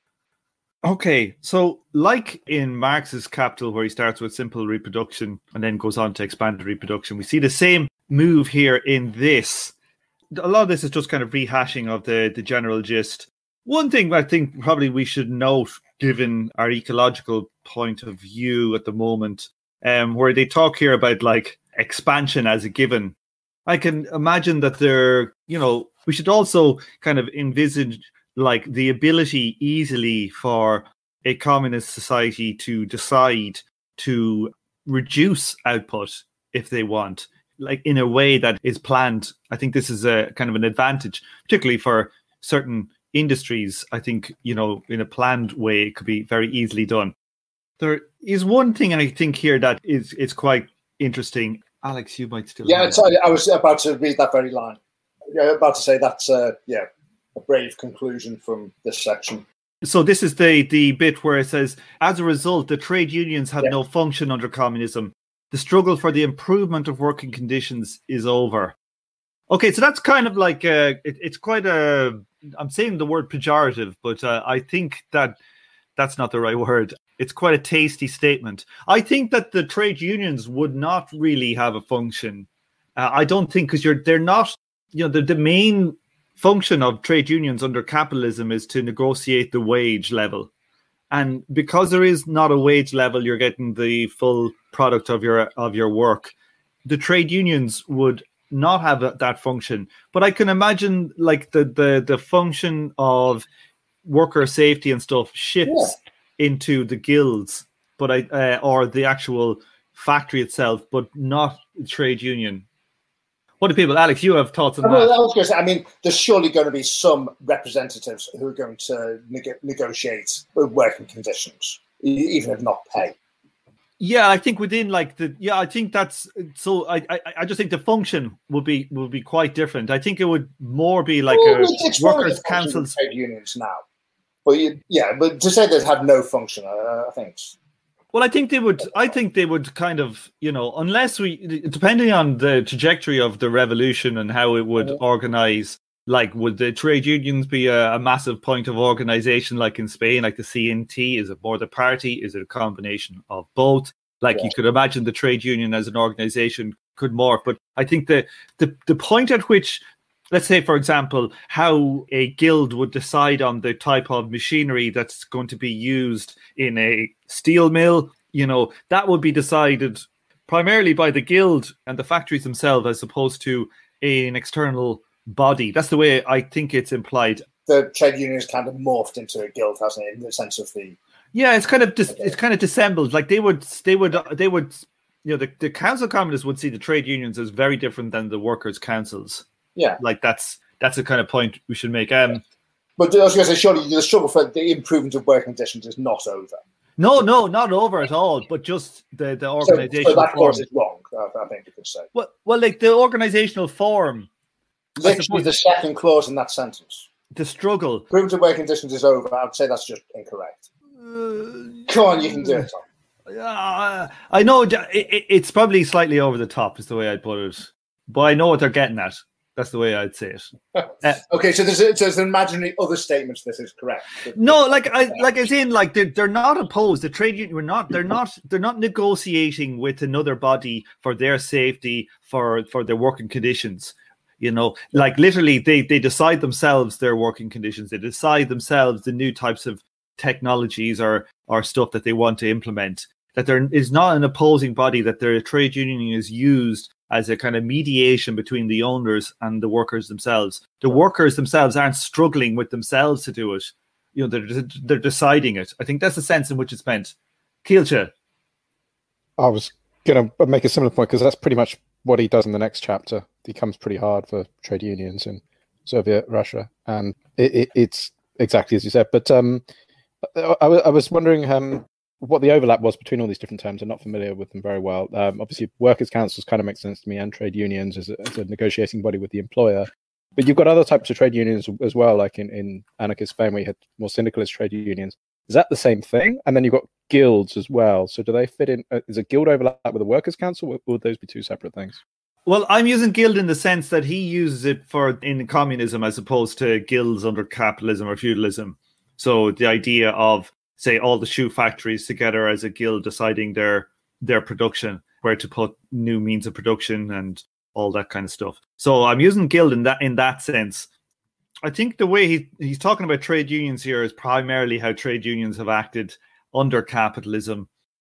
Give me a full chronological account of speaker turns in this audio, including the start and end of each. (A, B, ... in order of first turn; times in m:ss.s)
0:00.8-0:09.7 A
0:10.3-0:23.1 A
0:23.6-0:47.1 A
0:47.8-0:53.1 A
0:52.6-0:54.8 B
0:55.3-0:59.4 B
0:59.8-1:08.7 A
1:09.5-1:15.4 A
1:16.0-1:30.5 A
1:31.1-1:36.3 A
1:36.8-1:43.4 A
1:44.0-1:52.6 A
1:45.7-1:45.9 B
1:53.6-1:55.1 A
1:54.8-2:03.1 B
2:04.0-2:12.9 A
2:11.3-2:13.8 B
2:14.4-2:17.5 B
2:18.1-2:57.4 A
2:57.7-3:01.0 B
3:01.3-3:09.4 A
3:10.0-3:12.4 A
3:13.0-3:16.6 B
3:17.0-3:20.6 A
3:19.6-3:22.1 B
3:22.1-3:24.3 A
3:25.0-3:27.0 B
3:25.0-3:25.5 A
3:27.3-3:28.1 A
3:28.1-3:30.6 B
3:31.0-3:32.7 A
3:31.9-3:32.8 B
3:33.3-3:40.5 A
3:41.2-3:45.2 B
3:44.3-4:18.1 A
4:19.4-4:29.6 C
4:30.2-4:52.0 C
4:52.4-5:10.9 A
5:11.6-5:17.7 A